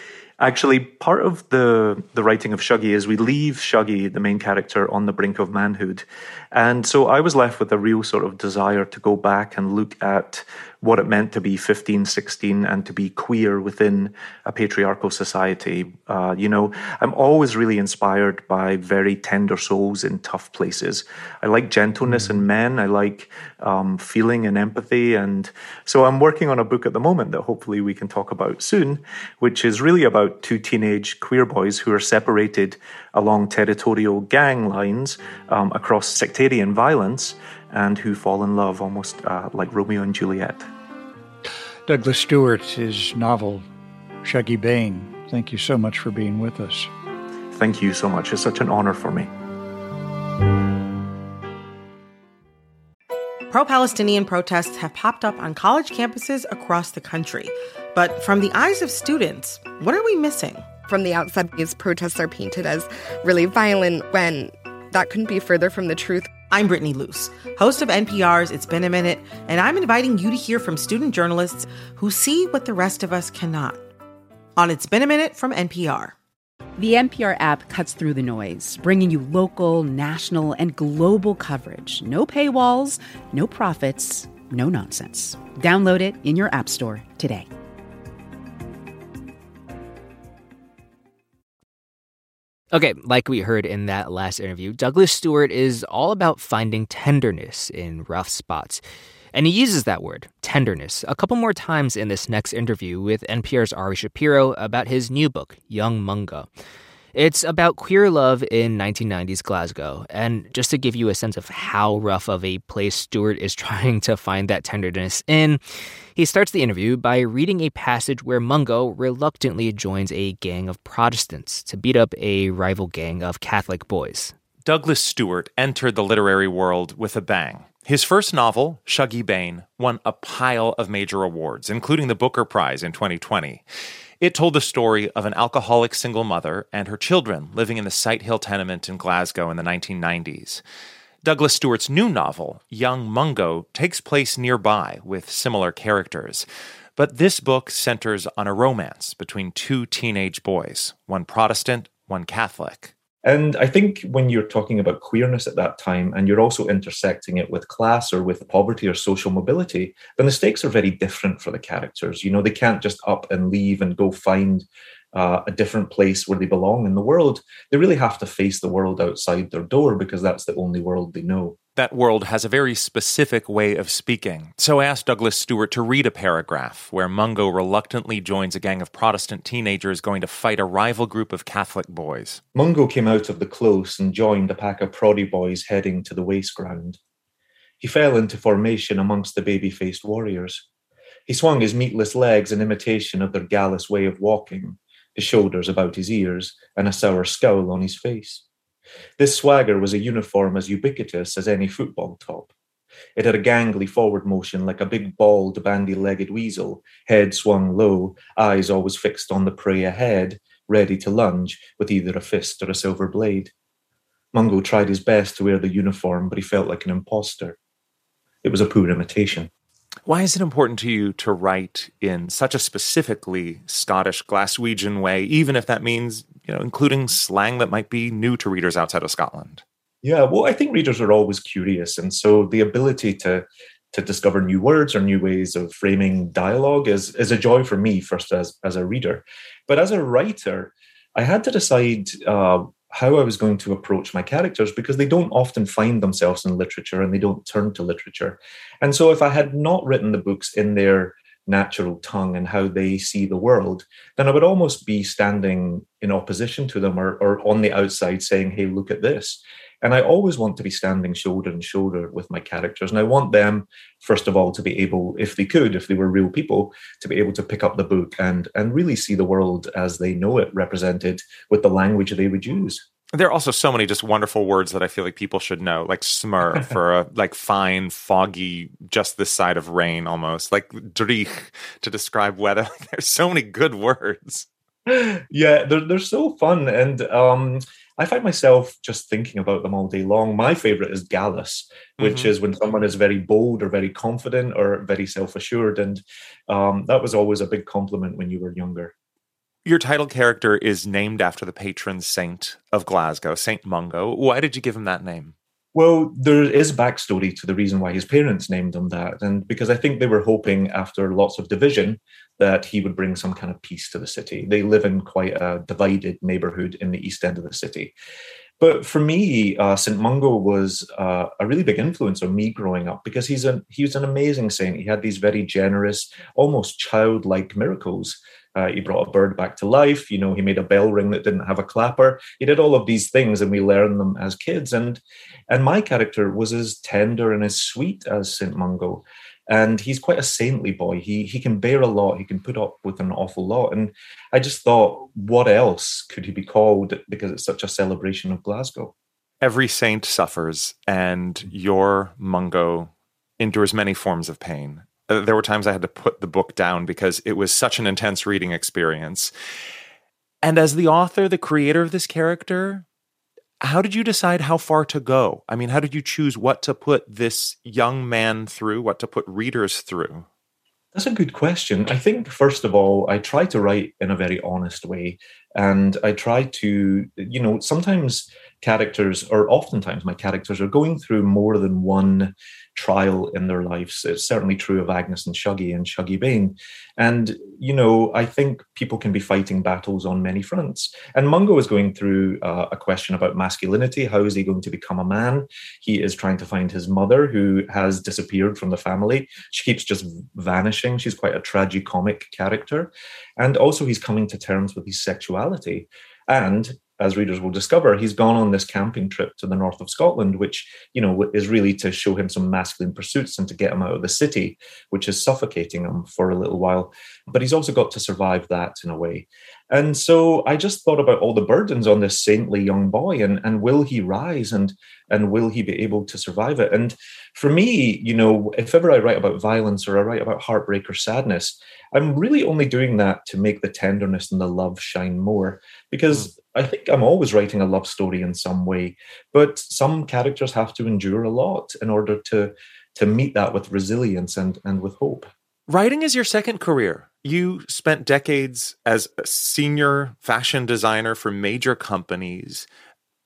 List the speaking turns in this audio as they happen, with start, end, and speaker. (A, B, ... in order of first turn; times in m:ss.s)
0:00.4-0:40.7 A
0:41.9-0:43.6 B
0:44.2-0:46.9 B
0:47.5-0:49.3 A
0:53.5-1:00.8 C
1:00.8-1:06.3 D
1:06.5-1:13.8 C
1:14.6-1:16.1 C
1:16.8-1:27.5 E
1:32.7-1:38.8 F
1:39.3-1:46.5 F
1:47.2-1:55.6 F
1:56.2-2:04.3 F
2:04.6-2:13.6 G
2:14.2-2:20.6 G
2:21.2-2:32.9 G
2:33.2-2:51.6 A
2:51.8-3:02.4 G
3:02.5-3:07.0 A
3:07.8-3:10.6 A
3:11.3-3:18.4 A
3:19.2-3:22.5 A
3:23.2-3:33.5 A
3:34.3-3:37.6 A
3:38.4-3:39.5 A
3:40.1-3:49.6 G
3:50.0-4:32.8 A
4:33.2-4:44.5 G
4:44.9-4:58.9 A
4:52.0-4:52.3 G
4:59.6-5:05.3 G
5:05.7-5:18.0 A
5:18.6-5:48.9 A
5:49.4-5:59.3 G
6:00.4-6:02.8 G
6:03.6-6:10.3 G
6:10.9-7:25.3 A
7:25.7-7:32.7 G